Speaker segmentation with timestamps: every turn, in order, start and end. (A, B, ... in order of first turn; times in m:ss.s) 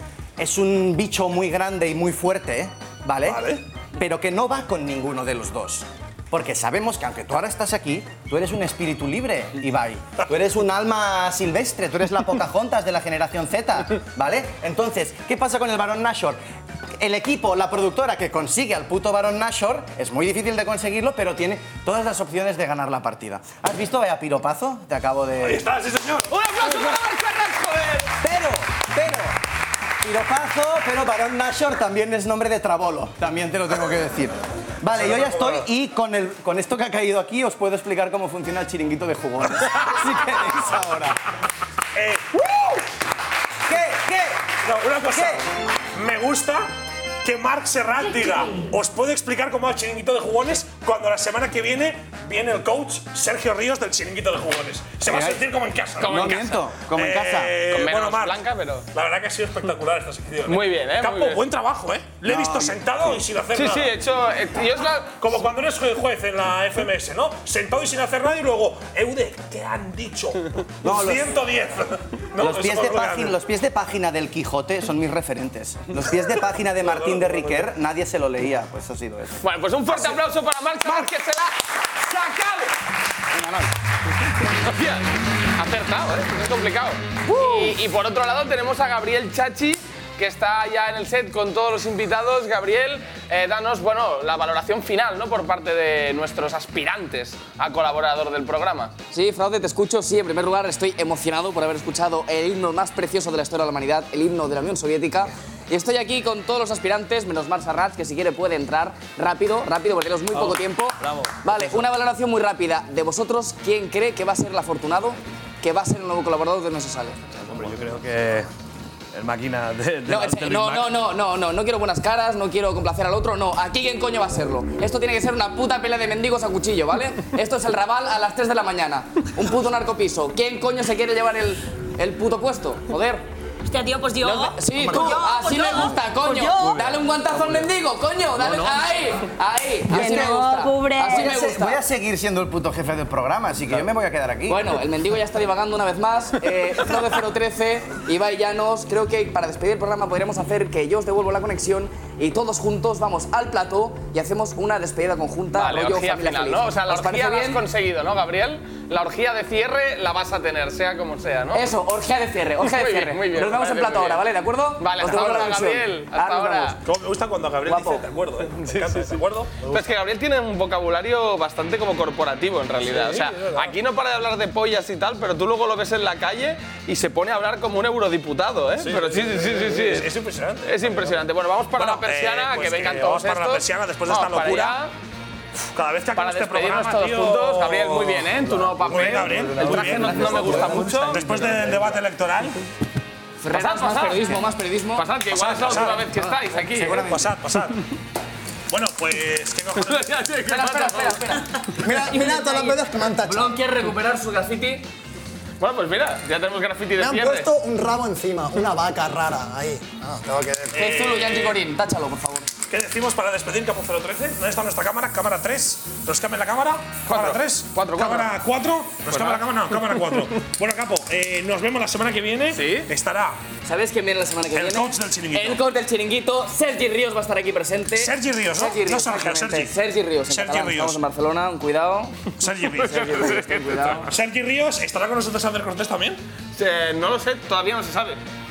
0:00.4-0:16.4 A
0:03.2-0:03.6 B
0:17.0-0:25.7 A
0:25.4-0:26.7 B
0:26.3-0:28.1 C
0:28.2-0:29.4 A
0:30.0-0:41.2 A
0:34.9-0:35.6 B
0:41.9-0:42.3 B
0:42.5-0:42.8 A
0:43.7-0:44.5 A
0:44.6-0:46.7 B
0:45.0-0:45.4 A
0:47.2-0:56.4 B
0:55.0-0:55.5 A
0:56.0-0:57.7 A
0:56.0-0:56.6 C
0:56.9-0:58.4 B
0:57.7-0:58.9 C
0:58.9-1:03.9 B
1:00.4-1:01.4 C
1:02.2-1:02.8 A
1:03.5-1:05.2 C
1:05.2-1:13.4 B
1:10.8-1:11.5 A
1:12.4-1:19.4 A
1:16.8-1:17.7 B
1:19.4-1:21.6 C
1:22.2-1:22.6 A
1:23.3-1:23.7 A
1:24.5-1:38.9 C
1:27.3-1:27.7 A
1:39.1-1:57.2 D
1:50.3-1:51.8 E
1:57.4-1:58.5 E
1:59.1-2:01.0 E
2:00.1-2:13.2 D
2:13.6-2:16.9 F
2:14.2-2:21.8 D
2:19.9-2:21.4 F
2:19.9-2:20.5 A
2:21.0-2:24.7 A
2:24.5-2:37.6 D
2:35.5-2:41.7 C
2:41.5-2:46.8 D
2:42.6-2:44.3 C
2:44.8-2:46.8 C
2:46.8-2:49.8 B
2:47.6-2:48.0 D
2:49.6-3:00.1 C
2:52.8-2:53.8 B
2:58.8-3:01.2 B
3:00.6-3:04.9 C
3:01.8-3:04.8 B
3:05.6-3:12.6 B
3:06.1-3:11.4 C
3:09.3-3:11.6 D
3:13.4-3:15.0 D
3:13.5-3:14.4 C
3:15.0-3:17.2 C
3:15.3-3:16.1 B
3:16.8-3:17.8 B
3:16.8-3:17.2 D
3:18.7-3:20.1 B
3:19.8-3:21.4 C
3:20.4-3:24.8 D
3:21.7-3:23.6 G
3:25.6-3:27.5 C
3:27.0-3:30.8 G
3:30.7-3:31.6 B
3:30.7-3:32.5 D
3:32.7-3:43.4 B
3:37.1-3:38.3 C
3:39.1-3:39.4 C
3:42.5-3:42.9 C
3:43.6-3:54.1 D
3:44.5-3:45.6 B
3:48.0-3:49.7 B
3:50.3-3:51.0 B
3:52.4-3:53.4 B
3:52.9-3:53.9 C
3:53.9-3:56.2 B
3:56.5-3:58.2 C